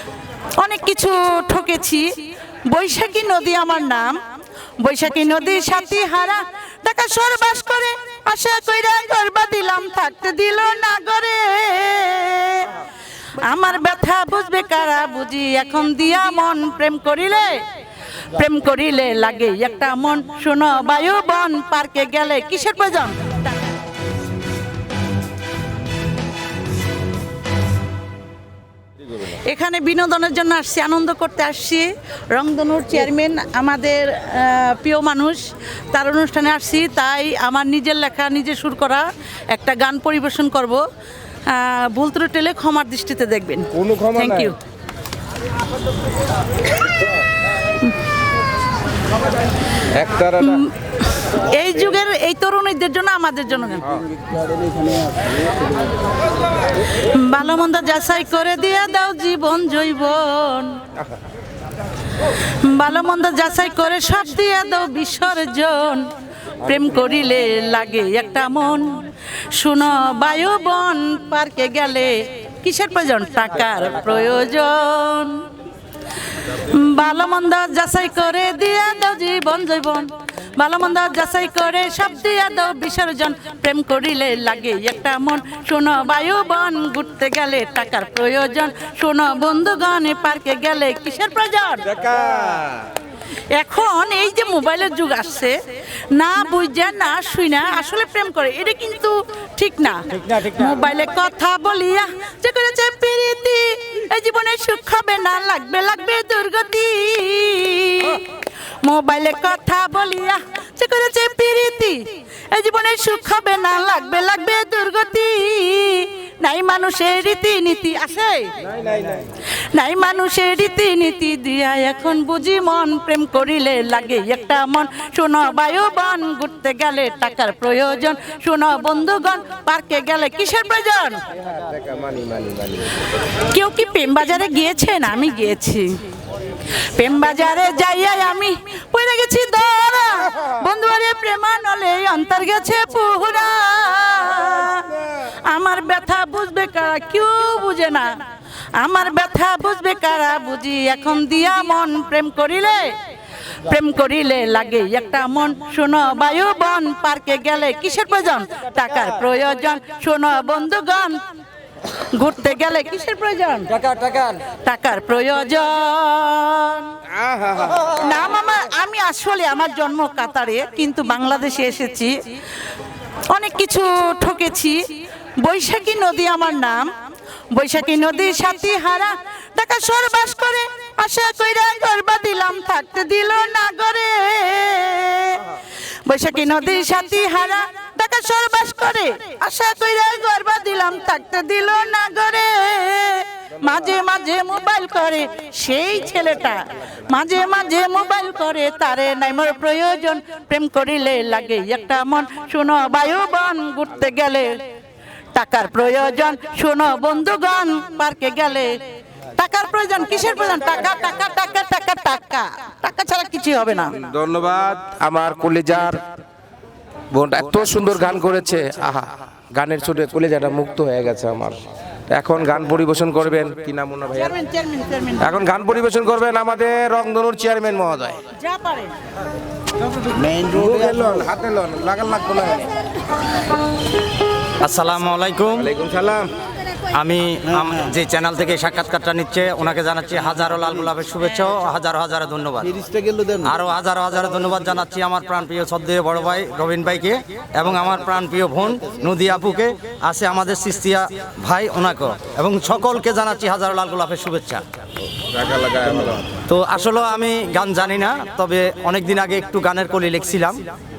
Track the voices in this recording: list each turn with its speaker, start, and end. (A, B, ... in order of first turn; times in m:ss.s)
0:00.6-0:02.0 A
0:02.7-0:04.1 A
0:04.8-0:12.8 A
0:13.4-0:17.6 A
0:18.3-0:23.2 A
0:29.2-0:40.8 A
0:41.5-0:44.6 A
0:43.7-0:44.5 B
0:49.9-0:50.6 B
0:50.4-0:54.0 A
0:57.0-1:00.8 A
1:02.6-1:06.1 A
1:06.6-1:15.4 A
1:16.4-1:32.0 A
1:32.0-1:32.7 B
1:33.5-1:35.6 A
1:36.1-1:48.3 A
1:48.8-1:58.6 A
1:58.7-1:59.2 B
1:59.7-2:11.2 A
2:11.5-2:12.9 B
2:13.4-2:16.0 A
2:16.8-2:28.1 A
2:28.8-2:32.9 A
2:33.6-2:41.2 A
2:42.0-2:46.9 A
2:47.1-2:47.9 B
2:47.9-2:52.1 A
2:53.3-2:54.8 A
2:55.4-2:56.8 A
2:57.5-3:24.5 A
3:25.3-3:28.7 A
3:29.4-3:33.9 A
3:34.0-3:36.0 B
3:37.1-3:44.4 B
3:44.1-3:45.3 A
3:45.2-3:48.2 B
3:48.3-3:48.9 A
3:50.2-3:52.7 B
3:54.6-3:55.7 C
3:55.6-3:56.3 B
3:56.9-4:14.6 C
4:15.4-4:16.2 B
4:16.5-4:20.6 C